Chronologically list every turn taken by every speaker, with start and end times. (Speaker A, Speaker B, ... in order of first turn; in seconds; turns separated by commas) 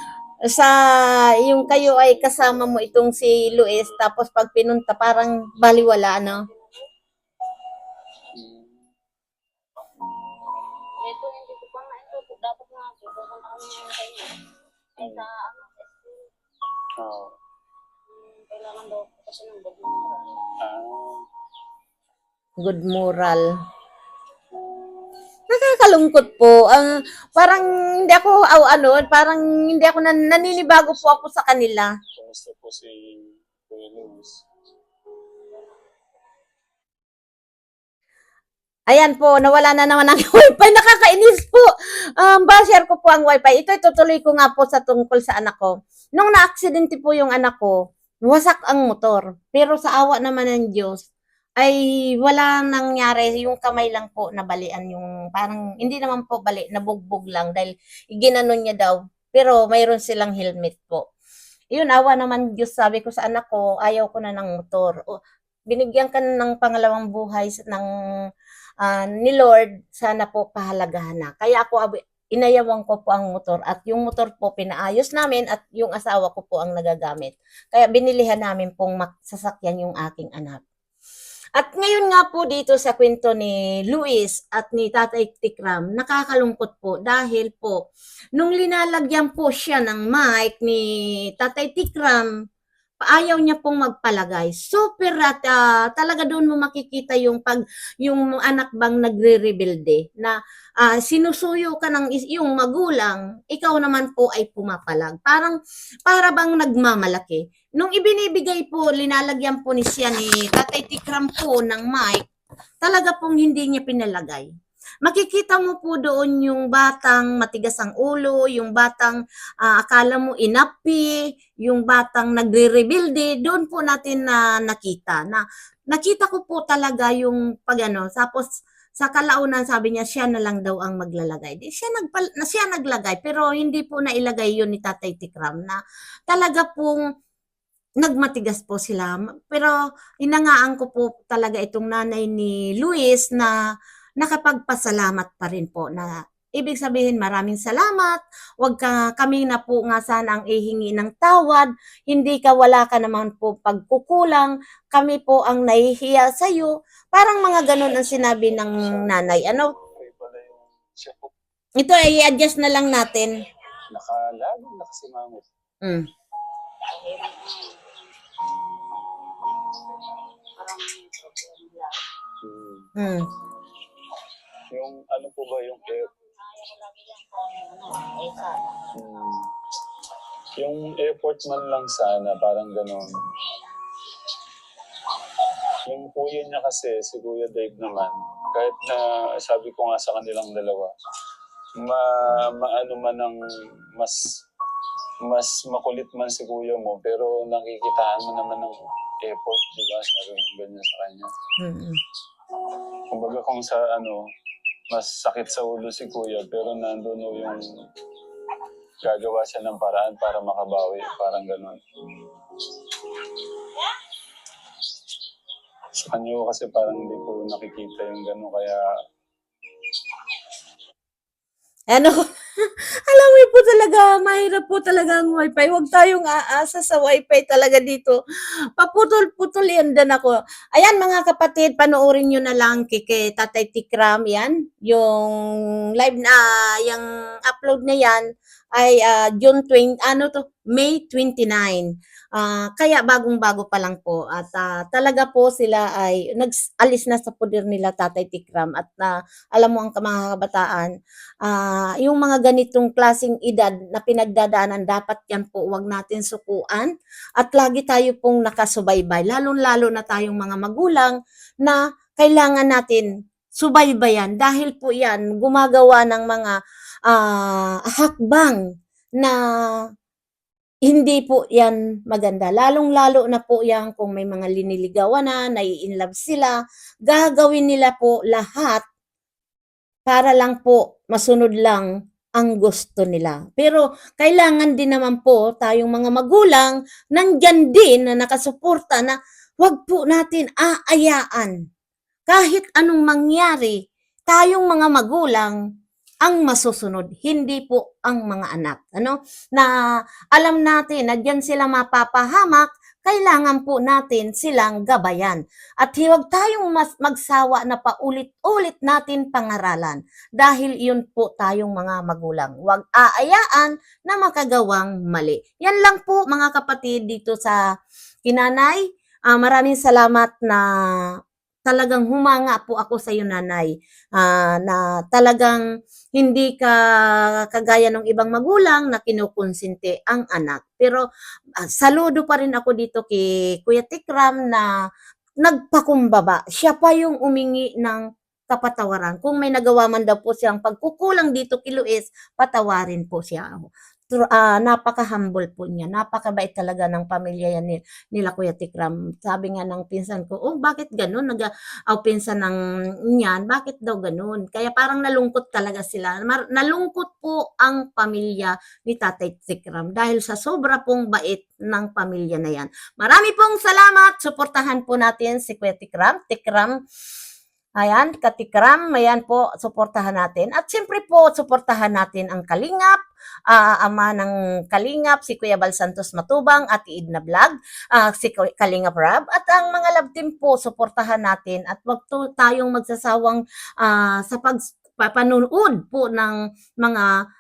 Speaker A: 0.4-6.5, Speaker B: 1.6-4.0, Speaker C: 6.4-6.9, Speaker B: 8.3-8.9, Speaker C: 11.0-14.5, Speaker B: 15.0-15.3, Speaker C: 15.0-16.3, Speaker B: 17.0-17.4, Speaker C: 18.1-20.4, Speaker B: 20.6-21.2, Speaker A: 22.6-23.5, Speaker A: 25.5-31.9, Speaker B: 30.5-31.3, Speaker B: 32.1-34.4, Speaker A: 38.9-47.8, Speaker A: 48.3-51.1, Speaker A: 51.6-61.0, Speaker A: 61.7-65.0, Speaker A: 65.7-67.9, Speaker A: 68.8-80.6, Speaker A: 81.6-87.8, Speaker A: 88.4-92.3, Speaker A: 93.0-112.2, Speaker A: 112.8-114.5, Speaker A: 115.0-135.8, Speaker A: 136.3-137.0, Speaker A: 138.0-143.6, Speaker A: 144.2-159.7, Speaker B: 158.5-161.3, Speaker A: 161.8-163.3, Speaker B: 163.9-165.5, Speaker C: 166.8-167.9, Speaker C: 170.6-172.0, Speaker B: 172.4-172.9, Speaker A: 173.0-173.3, Speaker B: 174.7-176.1, Speaker C: 176.1-178.8, Speaker B: 178.9-179.5, Speaker B: 180.6-183.2, Speaker B: 185.9-190.9, Speaker B: 191.8-193.4, Speaker B: 193.9-194.3, Speaker B: 195.2-201.3, Speaker A: 201.6-202.0, Speaker B: 203.1-204.2, Speaker B: 204.9-207.6, Speaker B: 209.0-211.8, Speaker B: 216.0-218.8, Speaker A: 221.9-228.2, Speaker A: 228.8-238.2, Speaker A: 238.8-250.9, Speaker A: 251.4-266.6, Speaker A: 267.1-268.6, Speaker A: 270.9-278.8, Speaker A: 280.1-291.6, Speaker A: 292.3-295.6, Speaker A: 296.2-299.7, Speaker A: 300.3-317.6, Speaker A: 318.3-320.6, Speaker A: 321.7-325.6, Speaker A: 326.2-331.0, Speaker A: 331.7-334.7, Speaker A: 335.4-352.6, Speaker A: 353.1-366.8, Speaker A: 367.8-373.0, Speaker A: 373.5-387.1